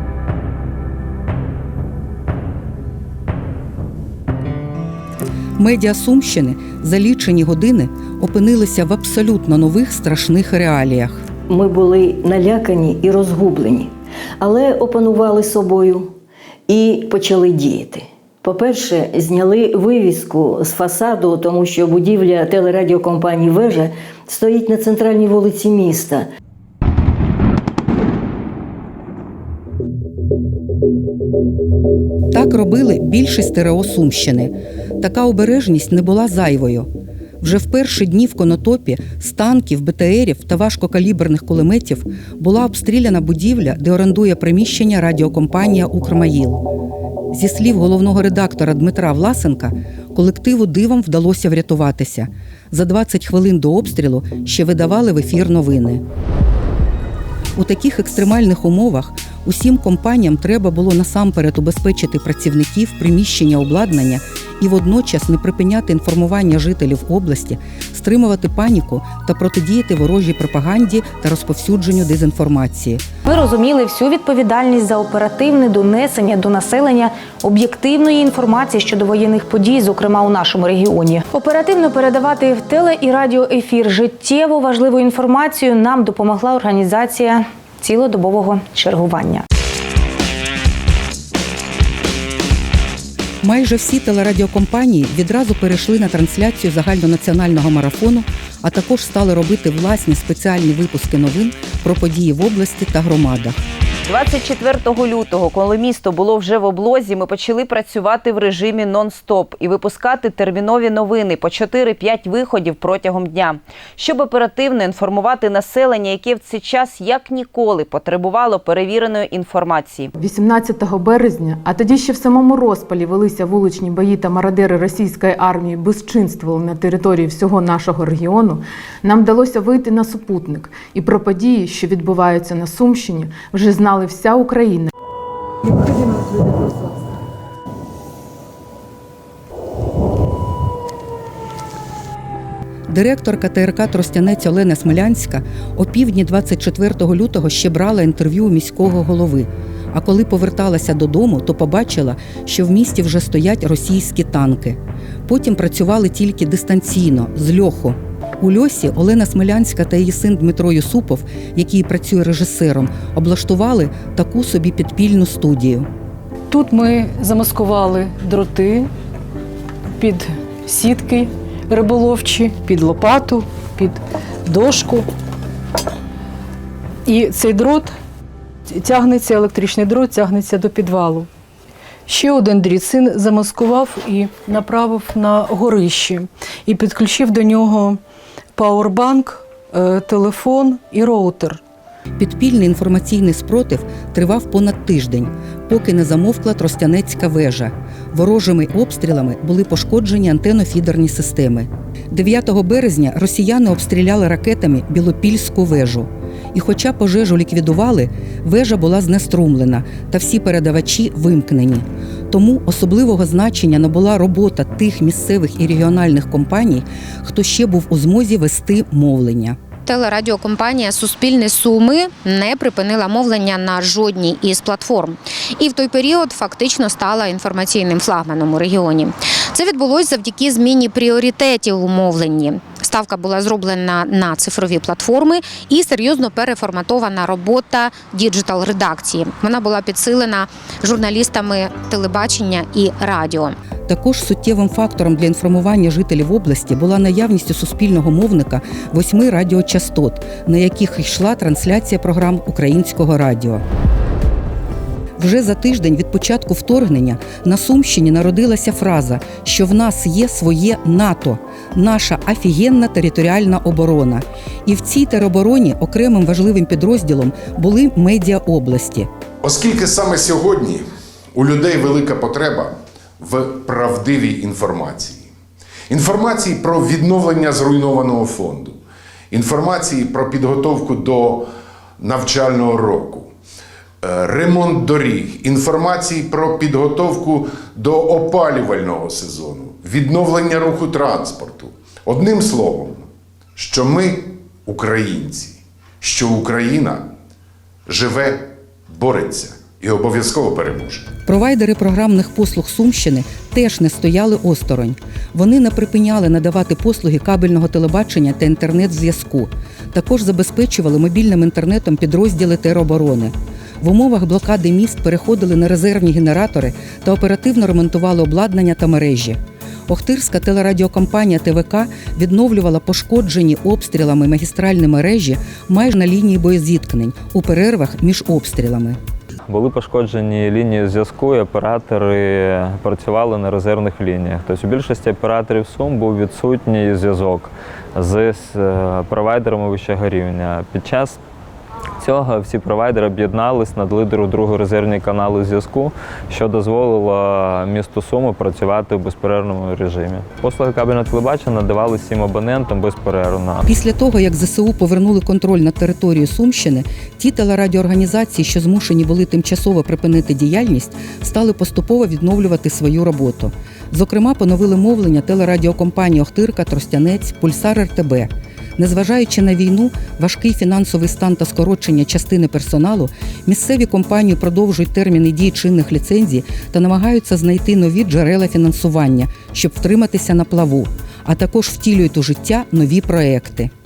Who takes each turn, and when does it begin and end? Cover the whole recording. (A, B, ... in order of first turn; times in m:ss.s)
0:05.6-0:11.2 A
0:11.5-0:16.2 B
0:16.7-0:26.3 B
0:32.3-0:36.9 A
0:37.4-0:46.6 A
0:47.3-0:56.0 A
0:57.6-1:13.0 A
1:13.2-1:29.4 C
1:33.4-1:43.6 A
1:44.0-2:00.1 D
2:00.2-2:14.8 E
2:22.9-2:45.9 A
2:46.5-2:48.9 F
2:50.0-2:55.0 F
2:57.1-2:57.9 F
2:58.7-3:01.3 F
3:02.1-3:08.0 F
3:08.6-3:11.6 F
3:12.2-3:39.6 A
3:39.8-4:03.5 G
4:03.9-4:13.6 A
4:15.2-4:29.1 A
4:29.4-4:35.3 H
4:35.9-4:38.8 H
4:39.3-4:43.3 H
4:44.0-4:57.0 H
4:57.9-5:01.1 H
5:01.2-5:29.0 A
5:29.5-5:41.2 I
5:42.0-5:53.6 I
5:53.6-6:23.7 A